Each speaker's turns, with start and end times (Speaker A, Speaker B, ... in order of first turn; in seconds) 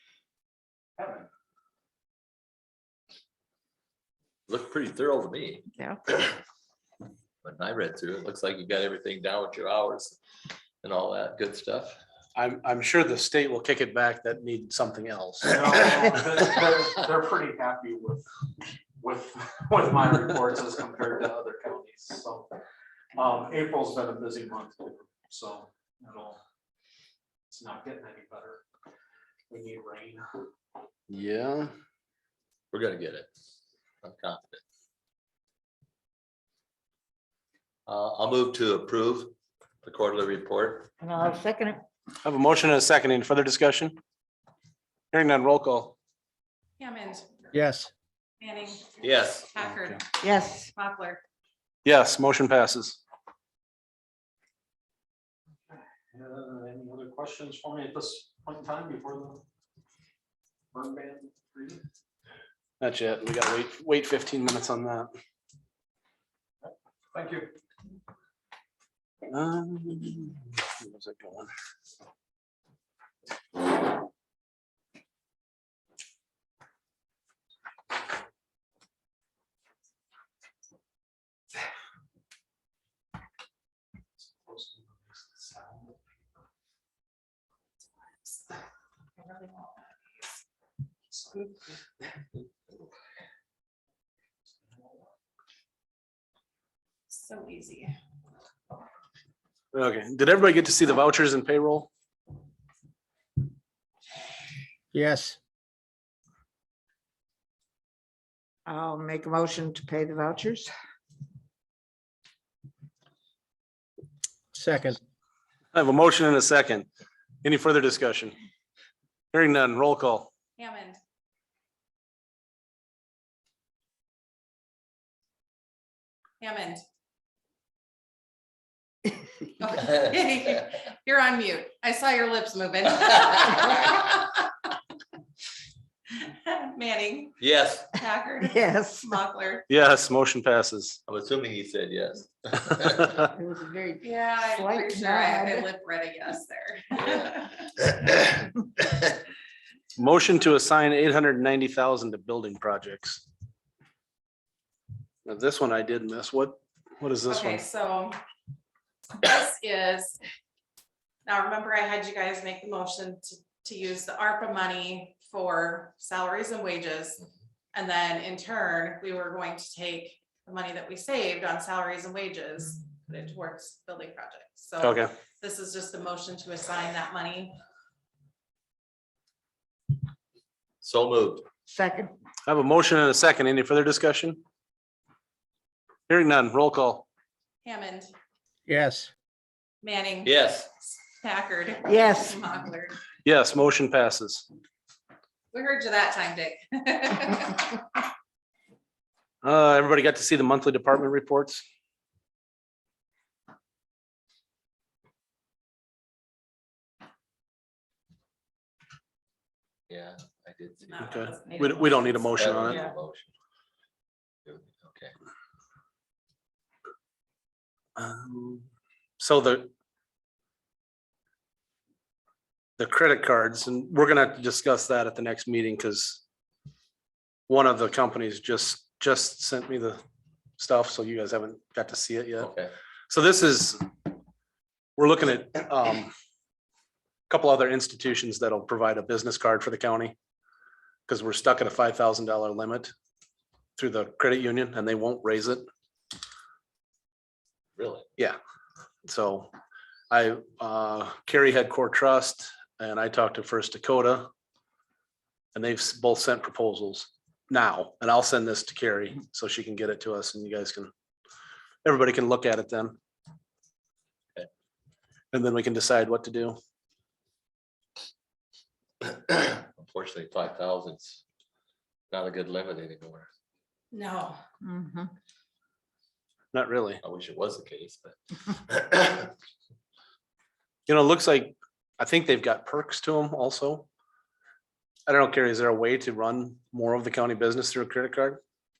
Speaker A: 4.5-5.6, 7.4-10.2, 10.8-12.0, 32.7-33.3, 34.0-34.6, 37.9-40.9, 49.0-49.5, 137.4-138.0, 141.1-143.1, 146.9-147.3, 180.8-181.4, 190.2-190.7, 209.9-211.1, 211.6-213.3, 214.4-215.1, 232.4-232.7, 247.8-248.1, 269.1-271.2, 272.1-273.3, 277.0-279.3
Speaker B: 12.3-16.1, 31.1-31.7, 42.2-44.0, 45.1-45.9, 51.8-53.0, 62.8-65.1, 69.3-71.5, 99.7-101.9, 115.7-116.9, 117.4-118.3, 119.3-120.3, 139.7-141.0, 149.9-153.2, 155.2-157.6, 174.8-175.1, 182.5-184.4, 186.1-187.1, 193.2-194.4, 199.4-201.6, 211.0-212.8, 218.0-218.6, 219.2-219.7, 222.8-226.2, 227.5-230.0, 230.6-232.5, 233.1-233.8, 235.0-236.1, 237.3-240.1, 241.1-242.9, 243.8-245.6, 249.1-249.5, 250.1-254.3, 255.5-260.9, 261.8-263.0, 265.3-266.6, 276.5-277.0, 280.9-283.9, 285.1-288.4
Speaker C: 15.5-18.2, 19.0-22.5, 23.1-26.4, 27.5-28.6, 29.5-30.3, 56.1-59.4, 60.7-61.8, 67.1-67.5, 84.4-85.9, 91.1-91.5
Speaker D: 41.0-41.8, 47.5-47.9, 50.2-50.7, 104.9-105.3, 108.7-110.7, 114.5-115.0, 138.4-139.2, 143.2-144.0, 144.6-145.7, 181.7-182.1, 188.7-189.1, 191.9-192.3, 274.6-275.1
Speaker E: 46.8-47.5, 48.4-51.2, 89.2-90.3, 97.1-97.9, 120.6-121.0, 126.4-126.8, 129.6-134.7, 136.2-137.4, 137.9-139.7, 144.0-147.7, 157.3-158.2, 159.2-160.2, 161.2-177.5, 187.6-188.1, 189.8-190.3, 190.9-192.9, 195.5-197.8, 210.8-212.5, 273.9-274.4